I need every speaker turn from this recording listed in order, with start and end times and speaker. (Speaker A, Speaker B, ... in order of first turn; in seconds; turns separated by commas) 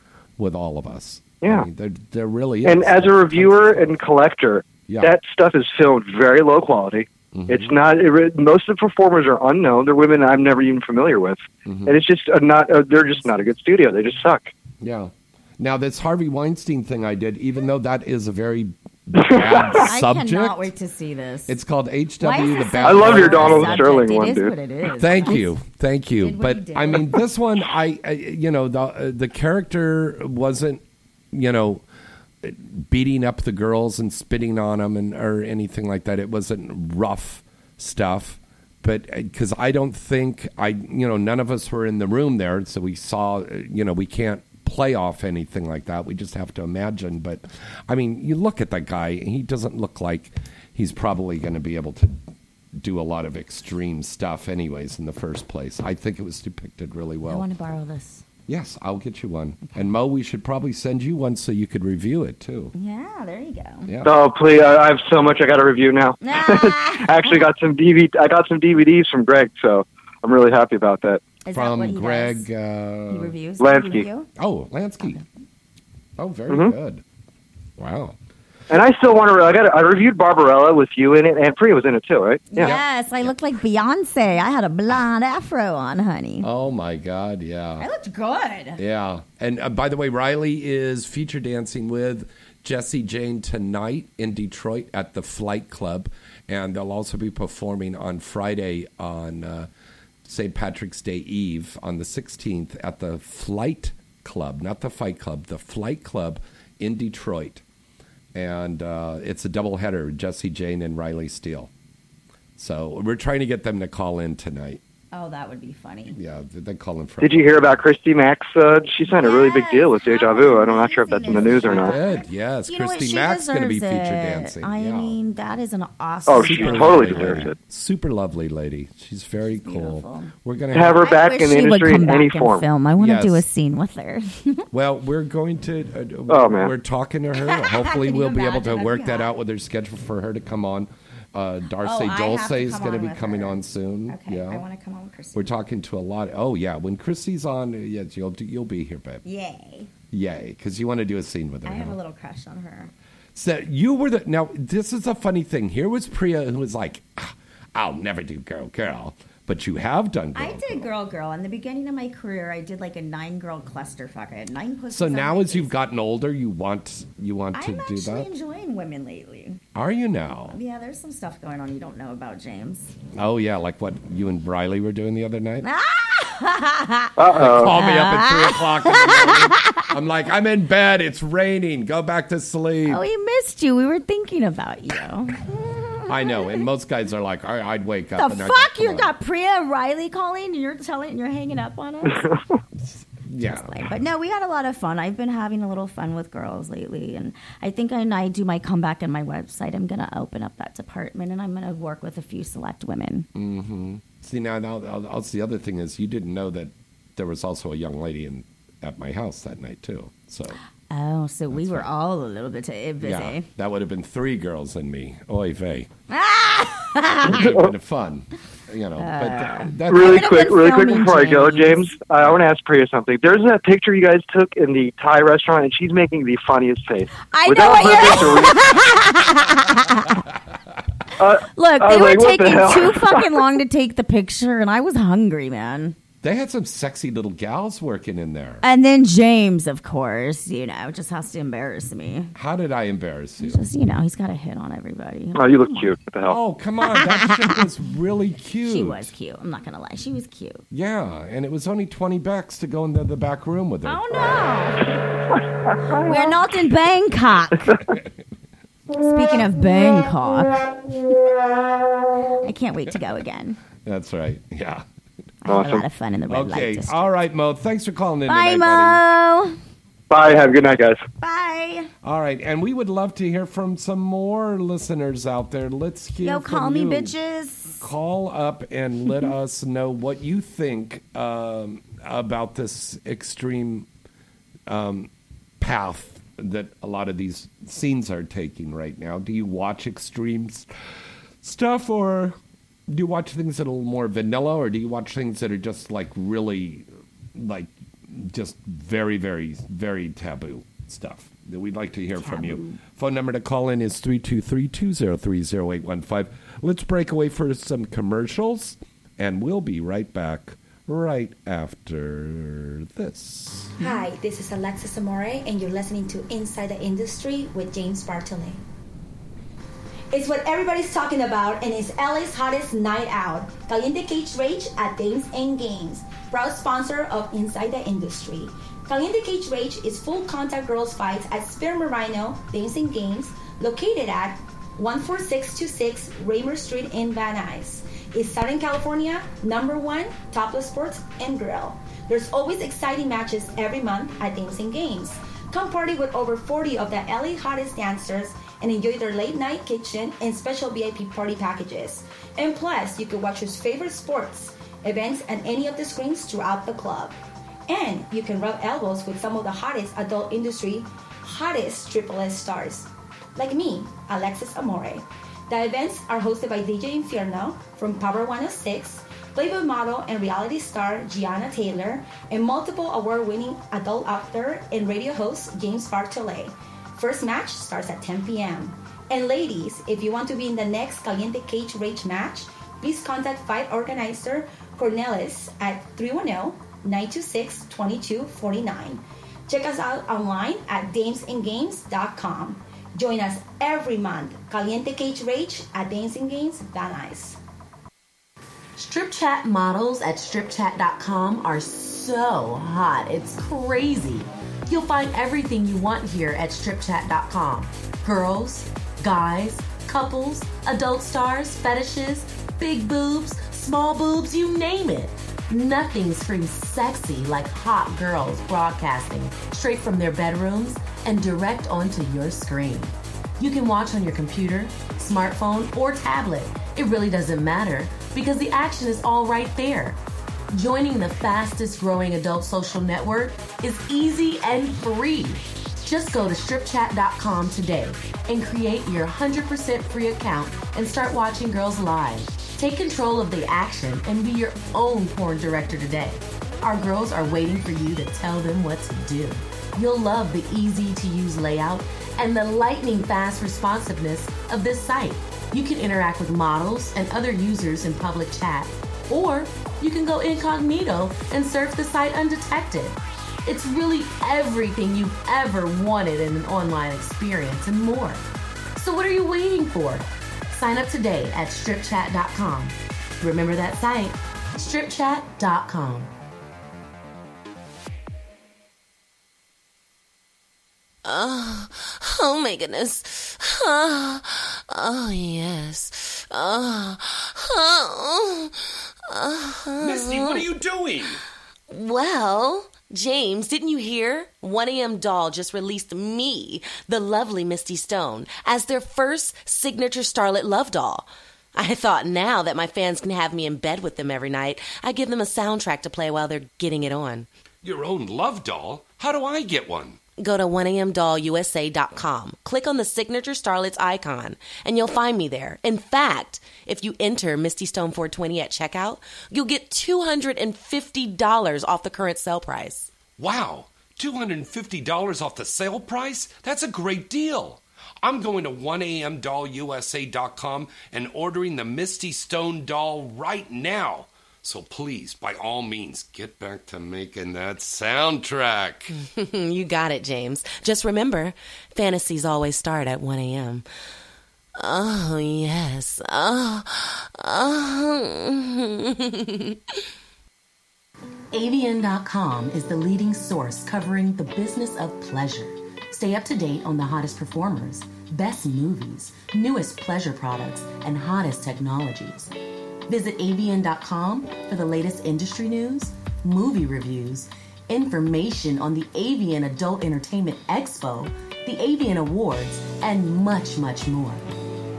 Speaker A: 0.4-4.0, Speaker B: 2.6-14.5, Speaker A: 7.3-7.7, Speaker A: 11.7-12.0, Speaker A: 14.8-20.7, Speaker B: 19.2-19.8, Speaker C: 19.7-21.6, Speaker A: 21.5-24.1, Speaker C: 22.2-25.5, Speaker B: 22.8-24.5, Speaker A: 25.0-31.8, Speaker C: 26.2-27.2, Speaker A: 32.4-52.2, Speaker A: 52.8-57.5, Speaker C: 57.2-58.2, Speaker A: 58.5-62.7, Speaker C: 59.6-59.9, Speaker C: 62.7-63.9, Speaker A: 63.9-64.2, Speaker B: 64.0-71.2, Speaker C: 66.2-67.4, Speaker C: 71.5-72.5, Speaker A: 71.5-73.3, Speaker C: 73.1-74.3, Speaker B: 73.6-74.1, Speaker A: 74.4-75.2, Speaker A: 76.2-77.0, Speaker A: 77.8-78.2, Speaker B: 78.7-82.7, Speaker C: 82.5-86.5, Speaker A: 82.6-83.3, Speaker A: 86.4-87.9, Speaker C: 87.8-88.8, Speaker A: 88.8-99.7, Speaker A: 100.2-107.6, Speaker A: 108.3-111.7, Speaker A: 112.6-114.8, Speaker C: 115.1-116.2, Speaker A: 116.1-117.8, Speaker B: 117.2-122.0, Speaker C: 119.1-127.5, Speaker A: 121.3-125.2, Speaker B: 126.3-127.6, Speaker A: 126.3-131.2, Speaker C: 129.4-134.7, Speaker B: 130.7-132.7, Speaker A: 133.0-133.4, Speaker A: 134.7-144.6, Speaker B: 136.3-136.7, Speaker C: 137.4-139.3, Speaker C: 141.8-145.5, Speaker A: 145.3-149.2, Speaker C: 149.2-149.9, Speaker A: 150.1-152.0, Speaker C: 151.7-152.9, Speaker A: 153.3-160.9, Speaker C: 160.3-165.7, Speaker A: 164.9-168.3, Speaker C: 167.5-169.6, Speaker A: 169.8-170.6, Speaker C: 170.5-172.9, Speaker A: 173.1-175.7, Speaker C: 175.6-179.9, Speaker B: 177.2-177.8, Speaker A: 177.3-183.0, Speaker C: 182.9-186.4, Speaker A: 186.1-189.1, Speaker C: 188.2-192.3, Speaker A: 192.8-193.9, Speaker C: 193.4-203.3, Speaker A: 203.3-210.6, Speaker C: 210.9-213.5, Speaker A: 211.5-211.9, Speaker A: 213.0-215.9, Speaker C: 216.1-217.5, Speaker A: 217.2-220.6, Speaker C: 219.0-222.0, Speaker B: 219.9-228.7, Speaker C: 227.3-230.2, Speaker B: 231.2-233.4, Speaker C: 231.5-236.0, Speaker A: 236.2-238.6, Speaker C: 238.6-242.3, Speaker A: 242.4-243.6, Speaker C: 243.4-245.9, Speaker B: 245.4-246.4, Speaker A: 246.3-249.1, Speaker C: 248.7-250.6, Speaker A: 250.7-254.5, Speaker C: 253.8-254.9, Speaker C: 255.9-257.8, Speaker C: 258.9-260.6, Speaker C: 262.4-263.6, Speaker A: 263.8-264.9, Speaker C: 265.4-267.1, Speaker B: 265.5-265.9, Speaker A: 266.3-269.0, Speaker C: 268.3-269.6, Speaker B: 270.1-271.0, Speaker C: 271.2-271.9, Speaker A: 272.0-277.1, Speaker C: 276.2-277.8, Speaker A: 277.8-283.9, Speaker A: 284.7-290.7, Speaker A: 291.4-292.4, Speaker A: 292.9-313.8, Speaker C: 302.2-302.8, Speaker C: 313.8-314.1, Speaker D: 313.8-318.6, Speaker D: 320.1-357.1, Speaker D: 357.7-397.4, Speaker E: 398.8-430.0, Speaker E: 430.5-468.2, Speaker E: 468.8-476.1, Speaker E: 481.0-490.5, Speaker A: 489.8-491.2, Speaker E: 491.7-507.3, Speaker A: 507.6-510.0, Speaker E: 510.2-522.9, Speaker A: 523.2-538.9, Speaker E: 538.9-543.7, Speaker E: 544.6-549.6, Speaker E: 551.3-562.3, Speaker E: 562.9-574.2